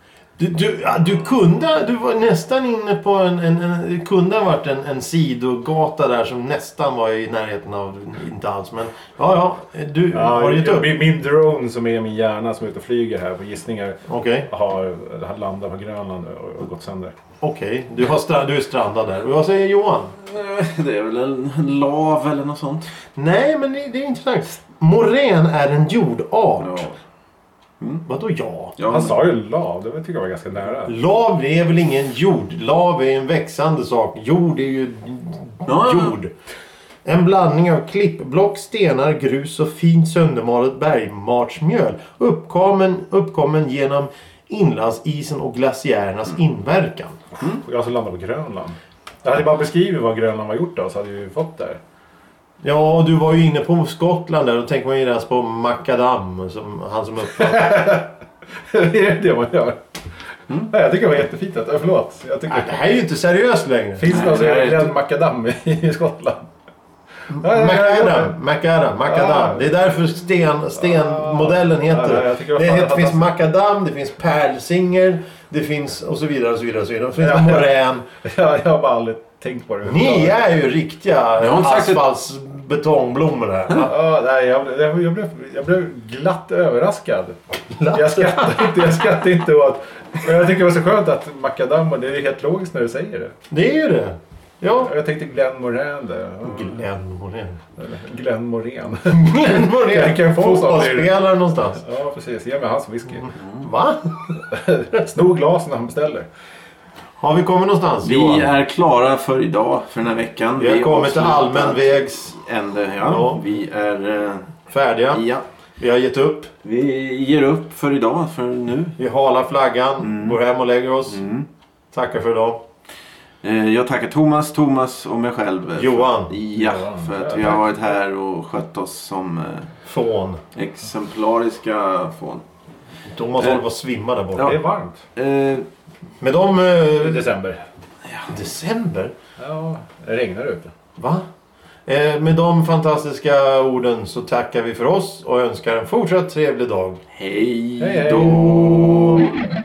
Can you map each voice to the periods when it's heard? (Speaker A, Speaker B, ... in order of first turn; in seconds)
Speaker A: 0.4-10.9, 14.1-14.5, 17.4-20.1, 23.1-26.9, 28.1-28.8, 30.9-36.3, 37.0-47.2, 52.6-57.9, 62.5-64.1, 67.3-78.1, 79.8-83.9, 87.7-88.8, 93.5-94.9, 96.4-97.6, 99.1-101.8, 103.5-104.3, 107.2-108.5, 110.6-112.4, 113.0-113.4, 114.7-115.3, 115.8-116.5, 119.0-121.2, 121.9-122.6, 125.8-126.3, 129.8-130.4, 133.1-134.6, 136.2-137.3, 138.3-139.1, 141.0-141.3, 141.9-147.0
Speaker B: 10.1-17.1, 28.9-31.0, 47.5-51.8, 57.4-62.8, 64.0-66.5, 67.3-68.3, 69.1-69.7, 70.8-73.3, 77.2-77.7, 78.2-80.6, 83.8-87.4, 87.9-93.4, 94.8-96.8, 97.8-101.2, 101.8-103.3, 104.5-106.3, 126.5-127.8, 134.4-135.1, 137.0-137.6, 139.4-140.7, 147.8-148.8
Speaker C: 20.2-22.9, 26.6-27.0, 28.8-29.3, 35.6-36.1, 64.1-64.9, 81.4-82.0, 108.0-114.6, 115.1-115.5, 116.6-119.0, 120.0-120.4, 121.1-121.5, 123.4-129.7, 130.6-132.4, 135.1-135.7, 147.1-149.4